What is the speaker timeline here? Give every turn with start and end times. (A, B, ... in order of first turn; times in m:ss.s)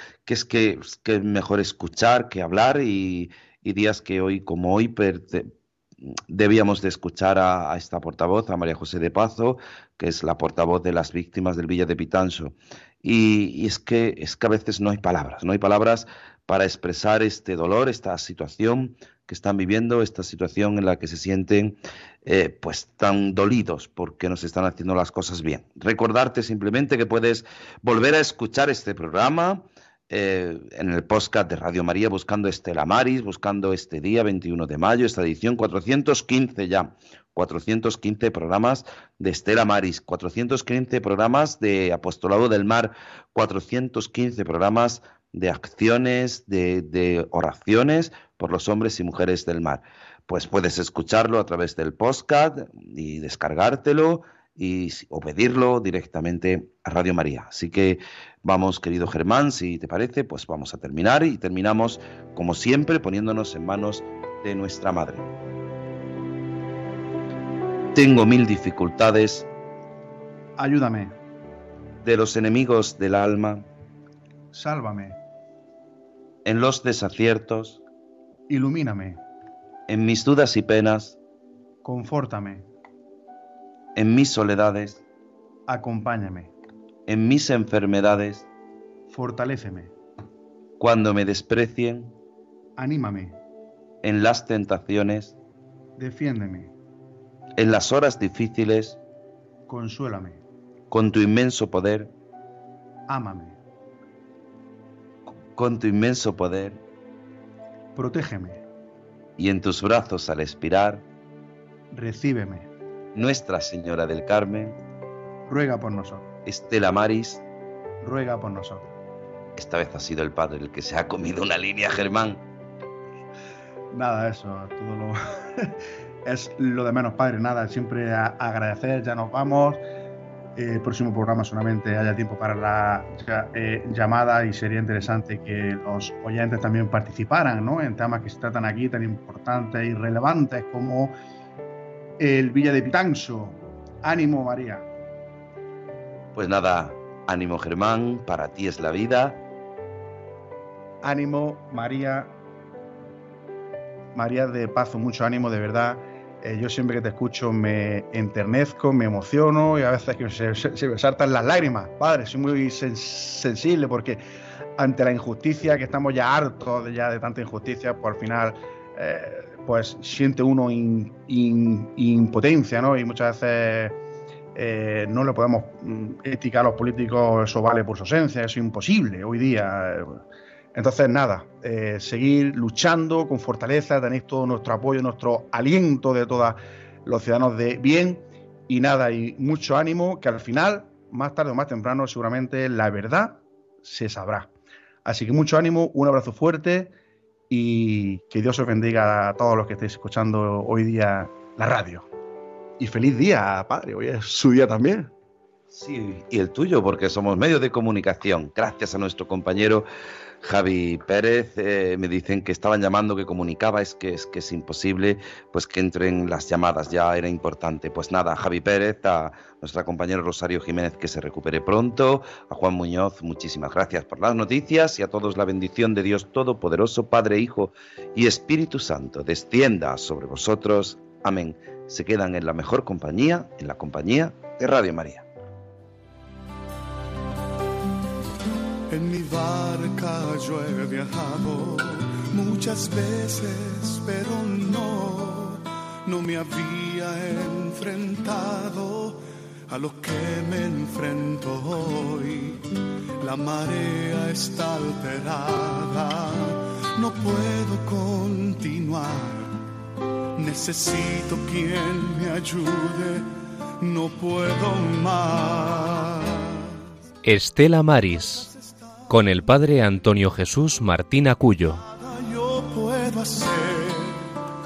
0:00.3-0:05.5 A
0:06.1-1:05.3 A
1:07.9-1:09.5 A
1:10.6-1:11.2 B
1:12.0-1:13.7 A
1:14.5-1:15.2 B
1:16.4-1:17.8 A
1:18.5-1:19.2 B
1:19.9-1:21.2 A
1:21.8-1:22.6 B
1:24.0-1:25.0 A
1:25.7-1:26.5 B
1:27.1-1:28.5 A
1:29.1-1:29.9 B
1:30.8-1:32.2 A
1:32.8-1:33.4 B
1:34.0-1:35.4 A
1:36.0-1:36.7 B
1:37.6-1:39.0 A
1:39.7-1:40.4 B
1:40.9-1:42.1 A
1:43.1-1:43.6 B
1:45.5-1:46.8 A
1:48.0-1:48.6 B
1:49.4-1:51.0 A
1:51.9-1:52.7 B
1:53.2-1:54.8 A
1:55.5-1:56.3 B
1:56.5-1:57.4 A
1:58.0-1:58.9 B
1:59.6-2:02.4 A
2:03.9-2:09.8 B
2:10.6-2:21.1 B
2:22.2-2:24.9 B
2:26.4-2:29.4 A
2:31.0-2:32.3 B
2:34.1-2:44.2 B
2:44.8-2:54.0 B
2:54.5-3:00.2 B
3:00.7-3:14.5 B
3:15.0-3:16.9 B
3:17.5-3:22.1 B
3:22.8-3:25.1 B
3:25.7-3:29.9 A
3:30.4-3:55.3 A
3:58.9-4:09.2 C
4:09.7-4:12.6 C
4:13.2-4:19.6 C
4:20.4-4:23.3 C
4:23.8-4:26.7 C
4:27.2-4:28.5 D
4:28.1-4:29.3 C
4:29.1-4:31.8 D
4:31.7-4:34.2 C